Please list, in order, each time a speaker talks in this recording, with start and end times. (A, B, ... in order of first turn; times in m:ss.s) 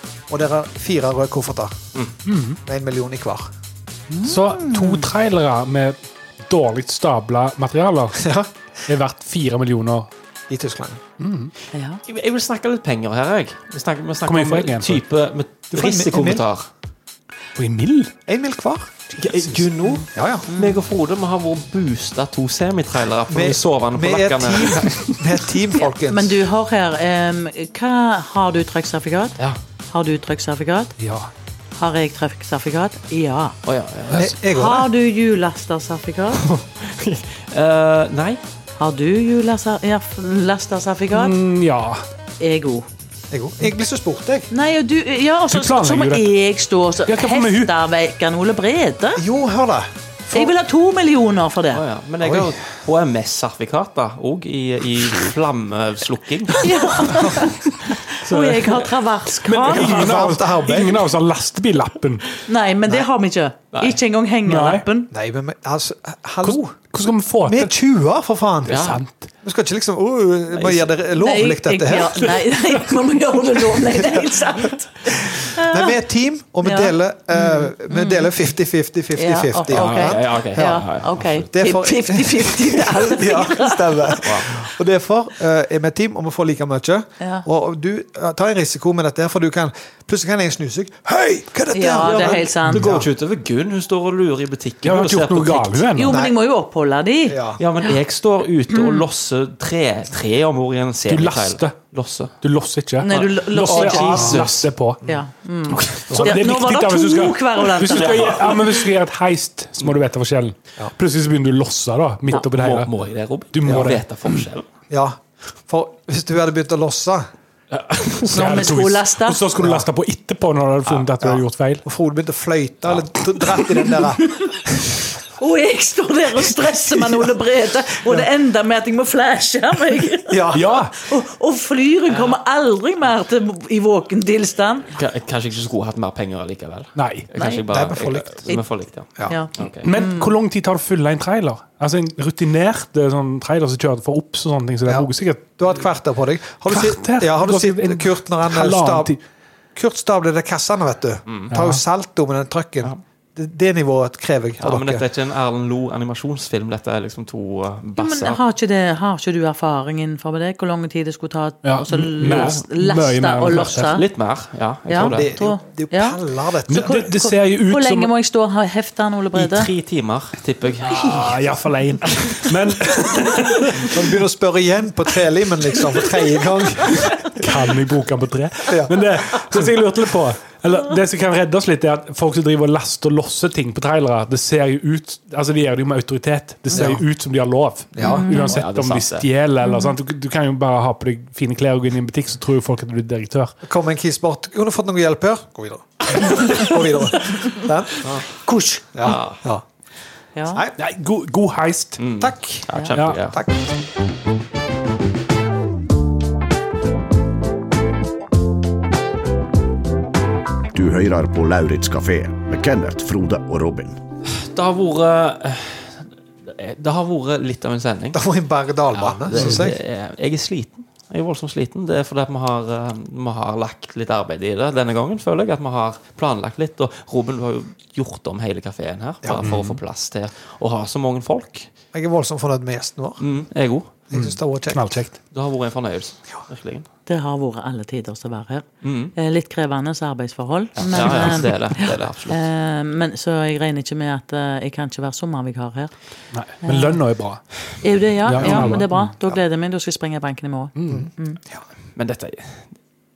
0:00.3-0:01.8 A
0:02.3-0:02.6 B
0:02.7-0:03.5 A
0:04.1-0:05.1 C
0:04.2-0:08.3 B
0:08.1-0:08.5 A
0:08.9-0:10.1 B
0:10.5-0:11.0 A
0:11.2-0:11.5 B
0:11.7-0:12.0 C
0:12.0-0:16.7 D
0:14.2-0:15.0 B
0:15.7-0:16.5 A
0:17.6-0:18.1 B
0:18.3-0:19.2 A
0:19.2-0:25.2 D
0:19.9-0:20.8 C
0:20.1-0:20.5 A
0:23.3-0:26.4 A
0:25.8-0:29.4 C
0:29.9-0:31.0 C
0:31.0-0:31.3 B
0:31.8-0:33.6 C
0:33.6-0:34.3 D
0:34.1-0:34.9 A
0:34.4-0:36.4 C
0:36.4-0:38.4 D
0:38.8-0:41.4 C
0:41.1-0:42.0 B
0:42.4-0:42.9 C
0:43.3-0:44.5 A
0:44.5-0:49.2 C
0:45.5-0:46.3 B
0:47.1-0:47.7 B
0:49.2-0:50.5 A
0:50.3-0:51.8 C
0:51.7-0:57.1 D
0:52.2-0:52.5 A
0:56.6-1:00.1 C
0:57.1-0:57.6 A
0:58.1-0:59.0 D
0:59.6-1:01.1 A
0:59.6-1:02.3 B
1:02.4-1:05.1 C
1:04.4-1:04.8 B
1:05.1-1:06.9 A
1:06.4-1:07.7 B
1:07.4-1:12.4 A
1:08.7-1:09.0 D
1:08.7-1:09.3 B
1:10.5-1:10.9 D
1:11.2-1:16.0 C
1:13.9-1:14.3 A
1:15.1-1:20.8 A
1:16.6-1:18.3 C
1:19.2-1:24.2 C
1:19.7-1:21.5 D
1:21.5-1:33.1 A
1:24.2-1:24.5 D
1:27.2-1:27.5 C
1:31.7-1:32.8 C
1:32.0-1:35.9 D
1:34.8-1:36.2 B
1:36.0-1:38.0 C
1:36.1-1:36.4 A
1:37.3-1:37.6 A
1:37.6-1:42.3 D
1:38.7-1:39.0 C
1:41.1-1:41.8 B
1:42.4-1:45.0 B
1:43.0-1:44.4 C
1:43.1-1:44.7 D
1:44.0-1:44.5 A
1:45.1-1:48.8 C
1:45.7-1:52.9 B
1:46.1-1:46.4 A
1:52.3-1:54.7 D
1:53.5-1:54.4 B
1:53.6-1:53.9 A
1:54.9-1:57.3 A
1:57.7-1:58.3 D
1:58.2-2:01.8 B
1:58.3-1:59.4 C
1:59.6-1:59.9 A
2:01.2-2:05.1 A
2:04.2-2:04.5 C
2:05.4-2:14.9 C
2:06.7-2:07.4 A
2:10.3-2:10.9 A
2:10.5-2:11.0 B
2:12.1-2:12.4 D
2:14.9-2:19.9 D
2:17.0-2:17.3 B
2:17.4-2:17.6 C
2:17.7-2:18.3 A
2:19.2-2:19.5 A
2:19.3-2:20.3 C
2:19.8-2:25.4 B
2:24.8-2:29.2 A
2:26.7-2:29.2 B
2:29.8-2:35.0 A
2:31.3-2:31.5 D
2:31.5-2:31.8 B
2:34.6-2:38.4 D
2:38.0-2:44.0 C
2:41.6-2:43.9 B
2:42.2-2:42.6 D
2:43.5-2:45.3 D
2:44.9-2:46.2 C
2:45.0-2:47.0 A
2:46.7-2:48.1 B
2:46.7-2:49.7 C
2:49.4-2:51.4 D
2:50.8-2:54.0 B
2:53.9-2:57.5 A
2:57.4-3:13.6 B
2:58.7-2:59.7 A
3:06.7-3:07.0 A
3:07.9-3:08.3 A
3:08.0-3:08.6 C
3:08.3-3:09.3 D
3:09.6-3:10.0 C
3:13.6-3:18.3 A
3:18.4-3:19.1 C
3:18.9-3:19.6 A
3:19.0-3:19.4 D
3:20.4-3:20.6 C
3:20.5-3:20.8 A
3:20.8-3:22.0 B
3:22.0-3:23.4 D
3:22.2-3:22.7 A
3:23.0-3:23.2 B
3:23.2-3:23.7 A
3:30.7-3:34.0 E
3:34.3-3:38.2 D
3:38.1-3:39.8 A
3:38.9-3:51.7 D
3:39.4-3:39.7 B
3:49.2-3:49.6 A
3:49.4-3:49.8 B
3:51.9-3:53.2 A
3:53.2-3:53.9 D
3:54.1-3:55.0 A
3:54.1-3:55.2 B
3:55.3-3:56.9 D
3:57.1-4:05.9 C
3:58.8-3:59.1 D
4:00.8-4:02.4 D
4:06.3-4:07.4 B
4:06.6-4:07.0 C
4:07.8-4:11.4 C
4:08.2-4:09.1 B
4:08.4-4:08.8 D
4:10.8-4:11.1 B
4:10.9-4:11.7 A
4:12.0-4:12.8 D